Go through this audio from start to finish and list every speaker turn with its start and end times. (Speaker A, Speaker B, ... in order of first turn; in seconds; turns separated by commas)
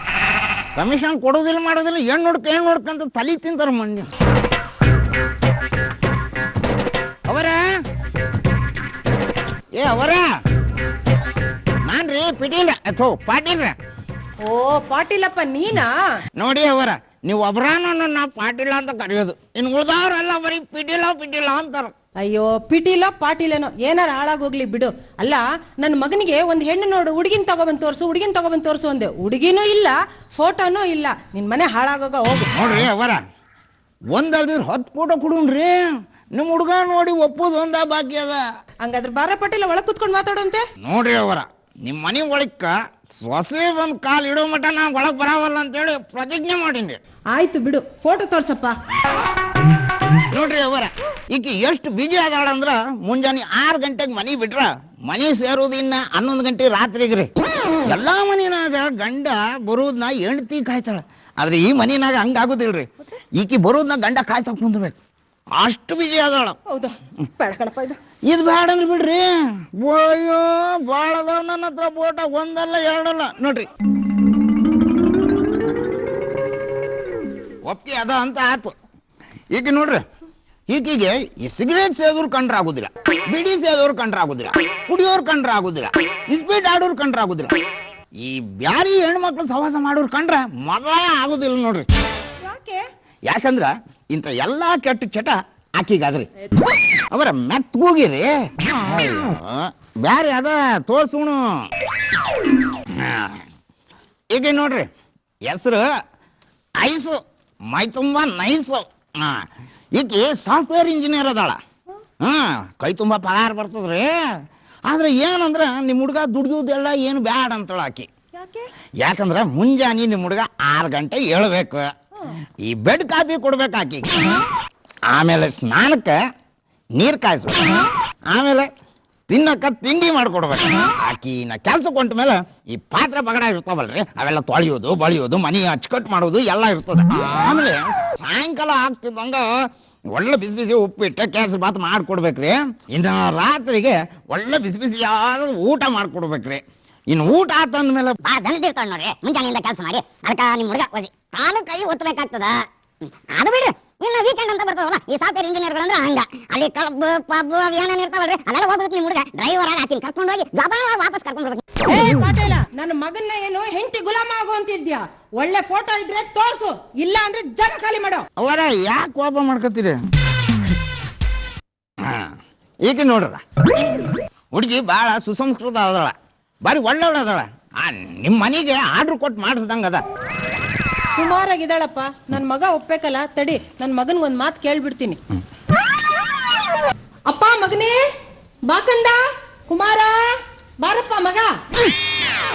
Speaker A: 0.8-4.1, Speaker A: 7.3-7.6, Speaker A: 9.7-10.3, Speaker A: 11.9-13.8, Speaker B: 14.4-16.0, Speaker A: 16.4-21.9, Speaker B: 22.2-32.5, Speaker A: 32.5-33.2, Speaker A: 34.1-38.4, Speaker B: 38.8-40.6, Speaker A: 40.8-47.0, Speaker B: 47.3-48.8, Speaker A: 50.3-57.3, Speaker A: 57.8-65.0, Speaker A: 65.5-66.6, Speaker B: 66.7-68.0, Speaker A: 68.3-73.7, Speaker A: 77.6-78.7, Speaker A: 79.5-80.0, Speaker A: 80.7-87.5, Speaker A: 88.2-91.9, Speaker B: 92.4-92.8, Speaker A: 93.3-96.3, Speaker A: 97.1-101.7, Speaker A: 102.9-103.5, Speaker A: 104.3-104.9, Speaker A: 105.5-105.9, Speaker A: 106.8-111.6, Speaker A: 112.2-114.3, Speaker A: 114.9-118.1, Speaker B: 118.3-118.7, Speaker A: 119.0-121.9, Speaker A: 122.6-124.4, Speaker A: 125.1-126.2, Speaker A: 127.0-128.7, Speaker A: 129.3-139.5, Speaker A: 140.1-148.2, Speaker C: 148.2-152.7, Speaker C: 153.3-161.9, Speaker B: 161.8-168.3, Speaker A: 168.4-170.0, Speaker A: 172.0-173.4, Speaker A: 174.5-176.1, Speaker A: 176.7-180.0, Speaker B: 181.1-185.2, Speaker B: 187.3-188.0, Speaker B: 188.7-191.6